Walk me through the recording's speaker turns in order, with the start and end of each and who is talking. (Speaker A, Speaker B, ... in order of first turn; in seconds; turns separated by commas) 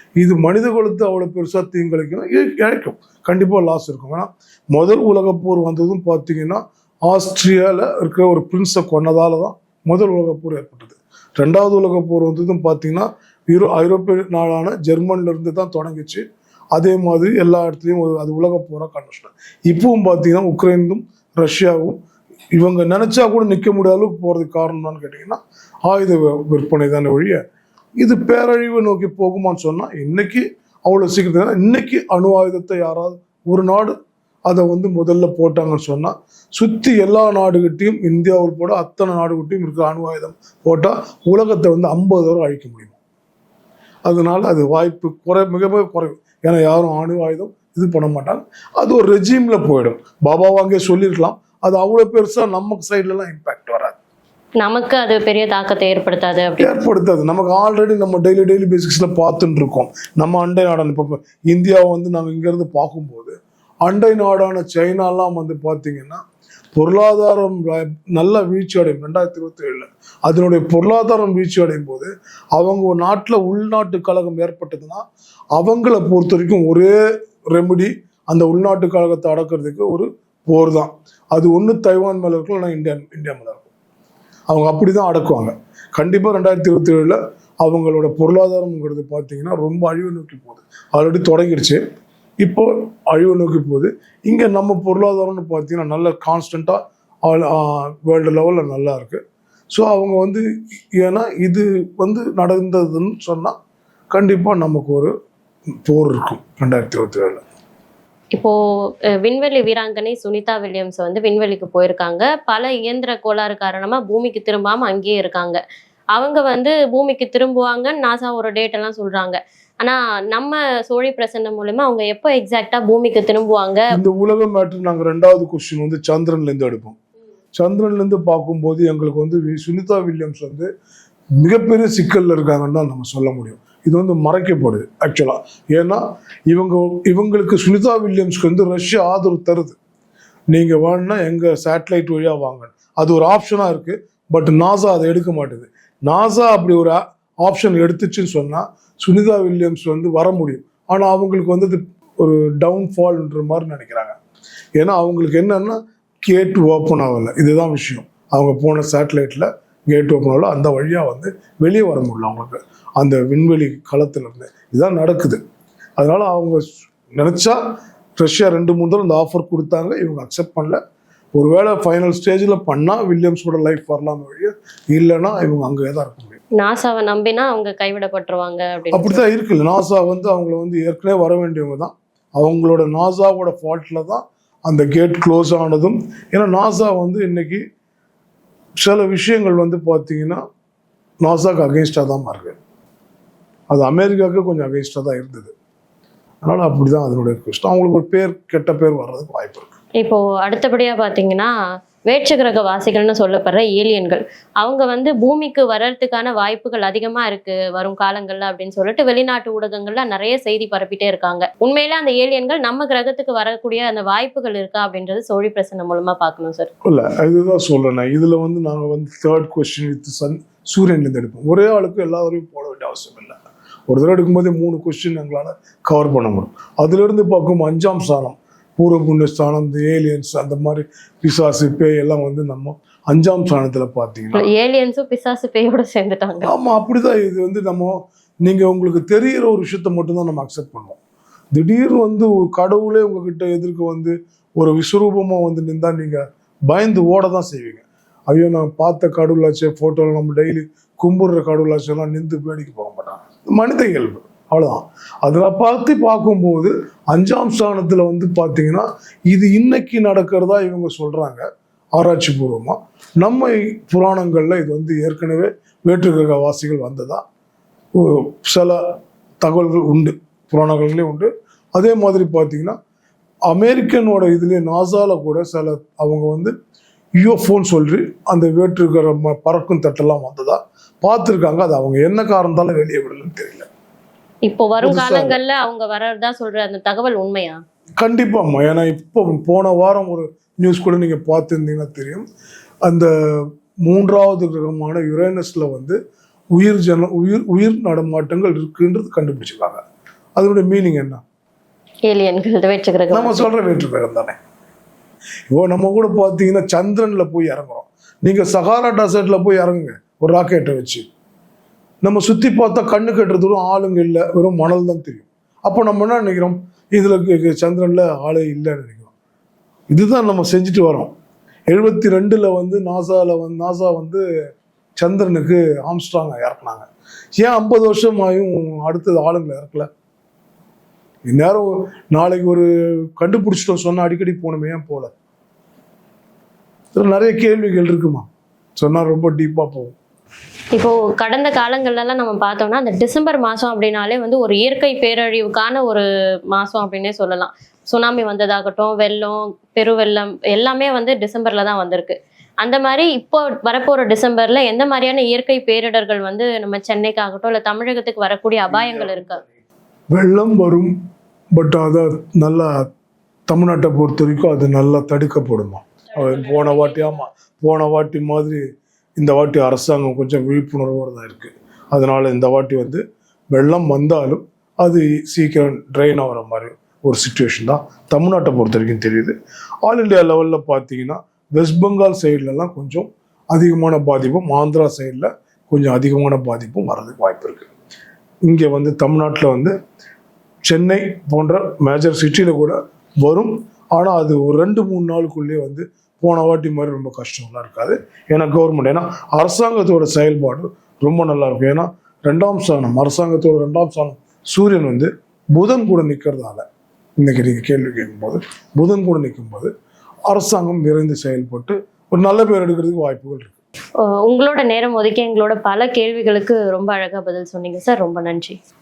Speaker A: 0.2-21.9, Speaker A: 22.5-27.4, Speaker A: 28.0-33.9, Speaker A: 34.5-43.0, Speaker A: 44.0-54.0, Speaker B: 54.6-56.7, Speaker A: 56.6-66.2, Speaker A: 66.7-75.0, Speaker A: 75.5-76.9, Speaker A: 77.5-83.7, Speaker A: 84.5-91.8, Speaker A: 92.4-100.4, Speaker A: 101.0-103.5, Speaker A: 104.1-105.1, Speaker A: 105.9-107.4, Speaker B: 109.2-115.6, Speaker B: 116.1-123.9, Speaker A: 123.9-127.0, Speaker A: 127.6-130.7, Speaker A: 131.4-139.8, Speaker A: 140.5-154.1, Speaker A: 154.8-165.4, Speaker A: 166.0-167.6, Speaker A: 168.2-170.8, Speaker A: 171.3-176.4, Speaker B: 176.6-179.2, Speaker A: 178.9-187.6, Speaker A: 188.8-190.4, Speaker A: 191.2-192.6, Speaker A: 193.7-195.5, Speaker A: 196.4-199.8, Speaker B: 200.0-201.5, Speaker B: 202.1-216.7, Speaker A: 216.8-223.4, Speaker A: 223.9-234.4, Speaker B: 234.3-236.5, Speaker A: 236.4-241.0, Speaker A: 241.5-267.2, Speaker A: 267.9-268.8, Speaker A: 269.4-272.8, Speaker A: 273.5-276.5, Speaker A: 277.2-283.7, Speaker B: 284.5-287.6, Speaker A: 284.8-285.4, Speaker A: 288.0-292.2, Speaker A: 293.8-296.0, Speaker A: 296.6-299.8, Speaker A: 300.4-301.2, Speaker B: 302.1-303.5, Speaker A: 303.1-304.3, Speaker A: 305.5-311.0, Speaker A: 312.0-319.1, Speaker A: 319.9-321.1, Speaker A: 321.7-324.2, Speaker A: 325.0-326.9, Speaker A: 327.4-329.9, Speaker A: 331.3-335.1, Speaker A: 336.9-339.9, Speaker B: 340.7-359.4, Speaker A: 360.1-360.9, Speaker A: 361.5-362.7, Speaker A: 363.5-368.6, Speaker A: 369.2-387.7, Speaker A: 388.4-389.7, Speaker A: 390.6-406.6, Speaker A: 407.2-409.7, Speaker A: 410.3-413.6, Speaker B: 414.0-418.6